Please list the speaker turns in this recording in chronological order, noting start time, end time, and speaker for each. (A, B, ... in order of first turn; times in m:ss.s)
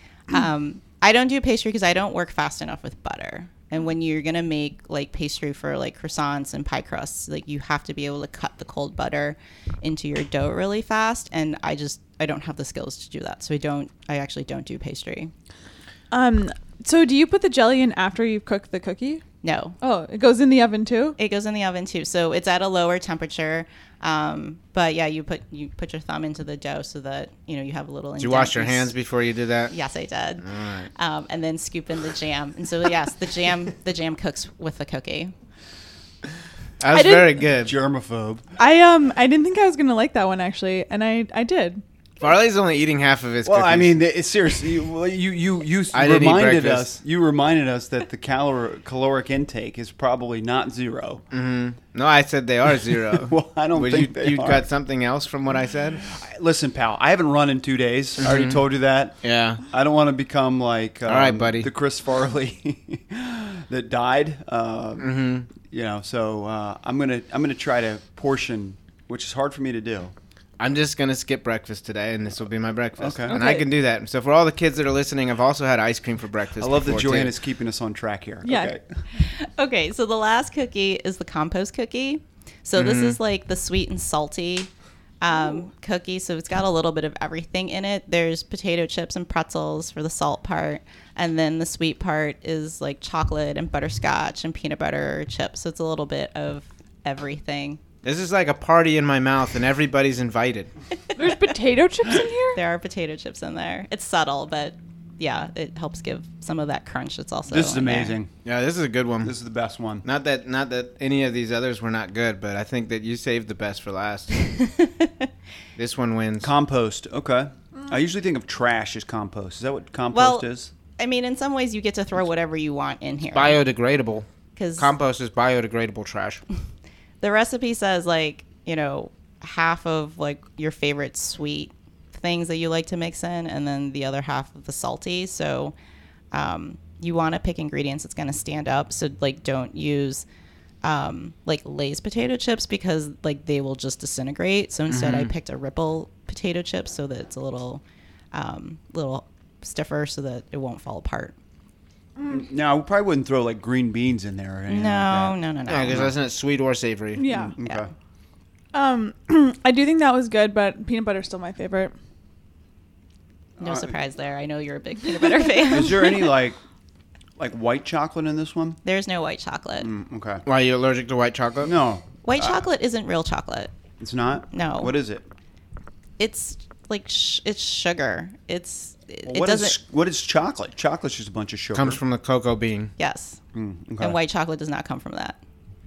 0:00.3-0:15.3 A
0:16.1-0:19.2 B
0:19.4-0:19.8 A
0:19.8-0:21.2 B
0:21.2-0:28.9 A
0:28.2-0:29.7 C
0:29.7-0:35.3 A
0:30.4-0:30.9 C
0:36.8-0:37.8 C
0:36.9-0:37.4 B
0:37.6-0:38.4 D
0:38.6-0:41.8 B
0:42.2-0:44.0 C
0:43.4-0:51.2 D
0:45.9-0:46.9 C
0:51.3-0:56.0 C
0:53.1-0:54.6 D
0:56.0-0:59.2 D
0:58.2-0:58.6 C
0:59.2-0:59.6 C
0:59.7-1:10.1 D
1:01.0-1:01.7 C
1:05.0-1:05.5 C
1:10.6-1:17.3 C
1:13.0-1:13.4 D
1:13.3-1:13.6 B
1:16.6-1:18.8 D
1:18.4-1:18.7 B
1:19.1-1:24.7 A
1:22.8-1:23.2 C
1:25.2-1:37.8 A
1:38.0-1:40.7 C
1:41.1-1:42.6 B
1:42.5-1:48.2 A
1:47.5-1:48.3 D
1:48.4-1:49.4 C
1:49.2-1:50.0 D
1:50.0-1:54.3 C
1:54.6-1:55.1 A
1:55.8-1:56.5 C
1:56.4-2:00.7 D
2:00.1-2:03.6 A
2:03.3-2:04.3 C
2:04.6-2:04.9 A
2:04.8-2:06.4 C
2:07.2-2:15.7 A
2:16.3-2:20.2 A
2:20.8-2:27.8 A
2:24.9-2:25.3 C
2:28.3-2:31.3 A
2:32.3-2:36.1 D
2:34.7-2:36.1 A
2:35.7-2:37.3 C
2:37.2-2:37.6 B
2:37.3-2:37.9 D
2:37.6-2:37.9 A
2:38.7-2:41.9 B
2:43.6-2:43.9 D
2:43.6-2:46.3 A
2:45.7-2:46.6 D
2:47.4-2:48.8 D
2:48.8-2:49.9 A
2:49.8-2:50.4 D
2:50.4-2:51.7 C
2:51.6-2:52.6 D
2:52.2-2:53.7 A
2:54.0-2:55.2 D
2:54.5-2:54.9 A
2:56.2-2:59.8 A
2:59.2-3:02.0 D
3:01.7-3:02.9 C
3:03.0-3:03.4 A
3:03.5-3:04.2 D
3:04.0-3:05.4 A